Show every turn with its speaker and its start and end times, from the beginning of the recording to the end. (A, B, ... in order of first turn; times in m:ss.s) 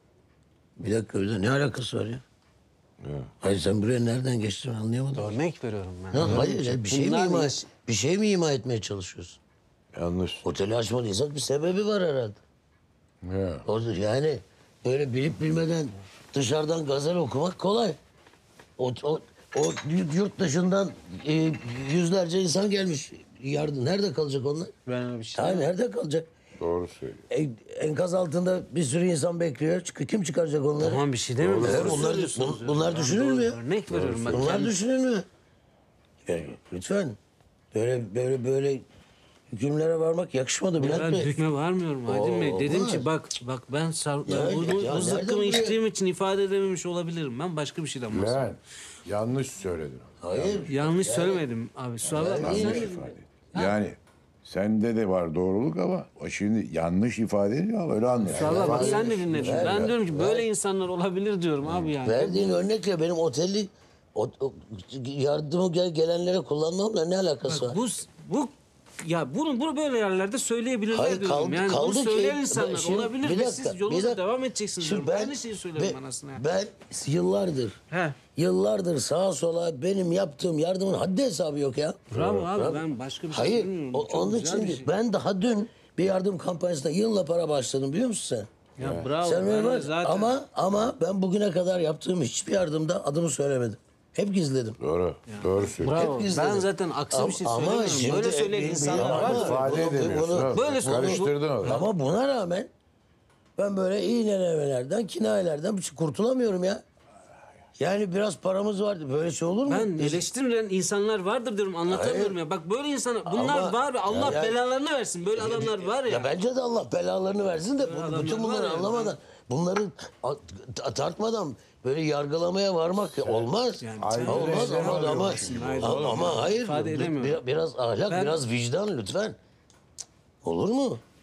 0:00.8-0:02.2 A
0:03.0-0:03.3 B
0:03.4-0:05.4 A
0:05.2-0:07.7 C
0:06.1-0:09.4 A
0:09.9-0:10.4 B
0:10.4-0:12.4 A
0:13.2-0:13.6 B
0:13.6-0:18.0 A
0:18.8-0:24.7 A
0:24.9-0:25.7 C
0:25.4-0:26.3 A
0:26.6-0:27.2 B
0:27.3-0:31.0 A
0:30.8-0:34.8 C
0:31.4-0:32.1 B
0:31.6-0:33.6 A
0:33.9-0:34.5 B
0:34.3-0:35.3 A
0:36.3-0:37.2 A
0:37.7-0:38.8 A
0:39.5-0:41.4 A
0:40.8-0:48.6 C
0:42.1-0:43.1 A
0:44.2-0:45.8 A
0:48.1-0:50.7 B
0:50.2-0:51.5 A
0:50.7-0:53.8 C
0:52.1-0:52.9 A
0:52.1-1:00.0 B
0:58.3-1:02.6 C
0:58.3-1:00.5 A
1:02.0-1:07.8 A
1:07.4-1:16.4 C
1:10.9-1:14.2 A
1:14.8-1:17.8 A
1:17.9-1:18.2 C
1:18.4-1:28.5 A
1:22.1-1:22.5 B
1:22.1-1:24.9 C
1:28.8-1:30.4 C
1:28.8-1:29.1 B
1:29.2-1:34.8 A
1:34.8-1:36.1 B
1:35.3-1:41.9 C
1:36.0-1:42.7 A
1:38.9-1:41.8 B
1:43.6-1:46.8 A
1:47.8-1:50.2 A
1:49.7-1:56.3 C
1:51.9-1:52.4 A
1:53.2-1:54.6 A
1:54.1-1:54.4 B
1:55.4-2:09.4 A
1:57.8-1:59.2 C
2:03.2-2:06.5 B
2:03.8-2:07.4 C
2:08.1-2:08.4 C
2:10.4-2:11.0 A